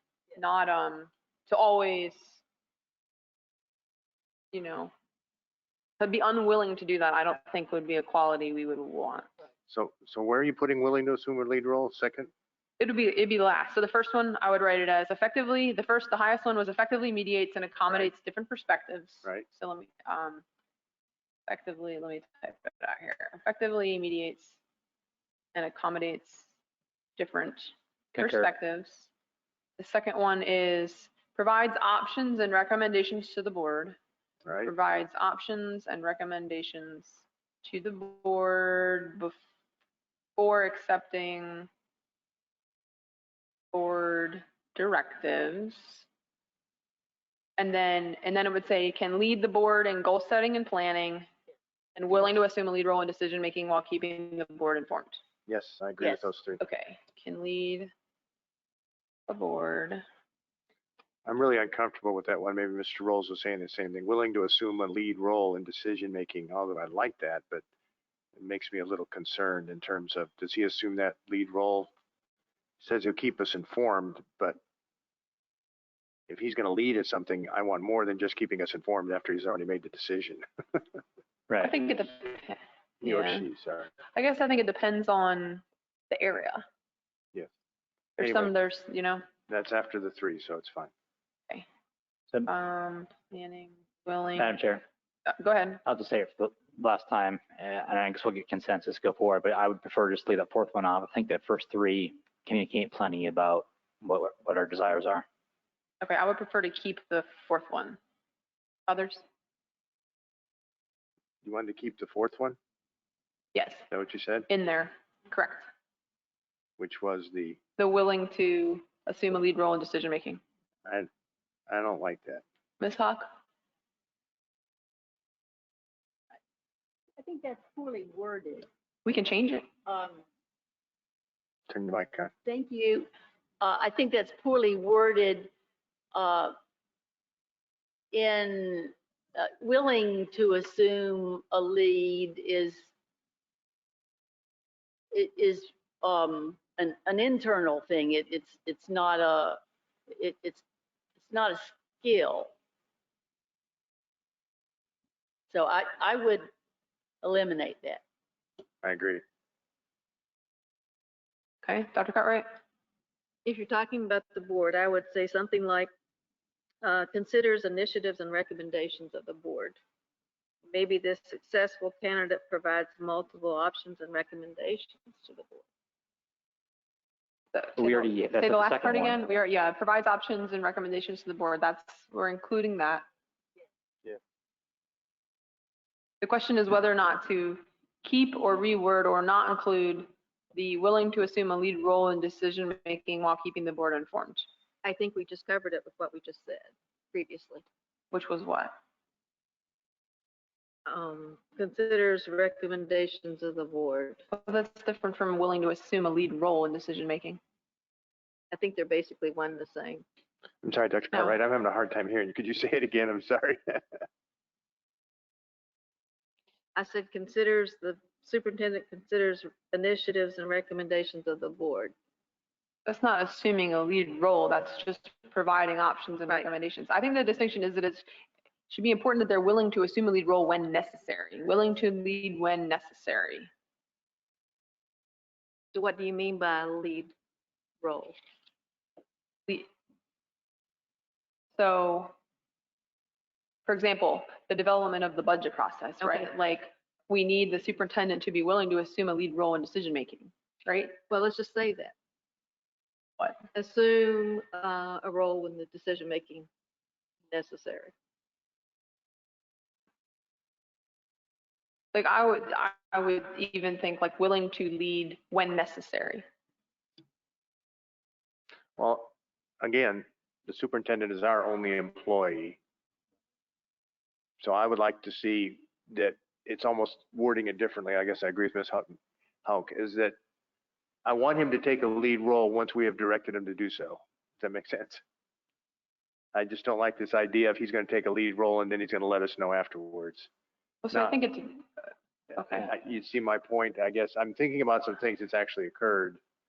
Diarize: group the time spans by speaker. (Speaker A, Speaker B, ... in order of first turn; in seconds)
Speaker A: 0.3-2.4, 4.5-4.9, 6.0-9.3, 12.8-20.4, 21.5-24.6, 25.6-26.5, 27.2-29.1, 29.8-34.0, 34.7-39.4, 40.4-41.7, 43.7-46.0, 47.6-51.3, 52.0-55.2, 56.6-57.9, 59.3-60.0, 81.6-83.5, 84.1-86.7, 88.2-89.2, 92.5-94.5, 95.3-95.8, 106.0-108.0, 108.9-109.2, 113.5-113.9, 114.5-115.7, 117.8-120.4, 122.8-123.3, 129.1-129.7, 161.6-162.5, 177.5-183.1, 186.2-194.5, 198.1-198.8, 204.3-207.4, 222.9-228.1, 228.7-233.5, 241.6-242.2, 243.7-251.0, 261.9-266.2, 290.8-291.9, 292.4-292.7
Speaker B: 9.7-12.3, 34.5-34.7, 55.5-56.6, 61.3-67.6, 68.3-71.9, 72.8-74.6, 76.3-80.8, 83.0-83.9, 88.2-88.5, 89.5-90.9, 111.4-112.6, 113.9-114.5, 116.8-117.6, 121.7-122.4, 131.7-132.3, 158.8-159.2, 210.6-213.8, 268.8-272.6, 274.4-280.2, 281.1-285.0, 286.3-290.3, 290.9-291.2, 292.4-296.2
Speaker C: 28.1-28.5, 94.4-94.8, 95.8-105.2, 177.8-179.2
Speaker D: 127.2-128.7, 129.9-130.2, 132.4-133.1, 133.6-135.5, 136.1-136.6, 138.1-142.9, 145.1-150.6, 151.2-152.5, 155.5-156.5, 157.2-158.0
Speaker E: 163.4-165.9, 166.8-169.8, 170.7-175.6, 194.8-197.6, 200.9-204.2, 208.5-210.1, 216.8-221.9, 235.7-237.1, 237.8-238.2, 251.1-251.9, 253.5-256.5, 257.3-257.9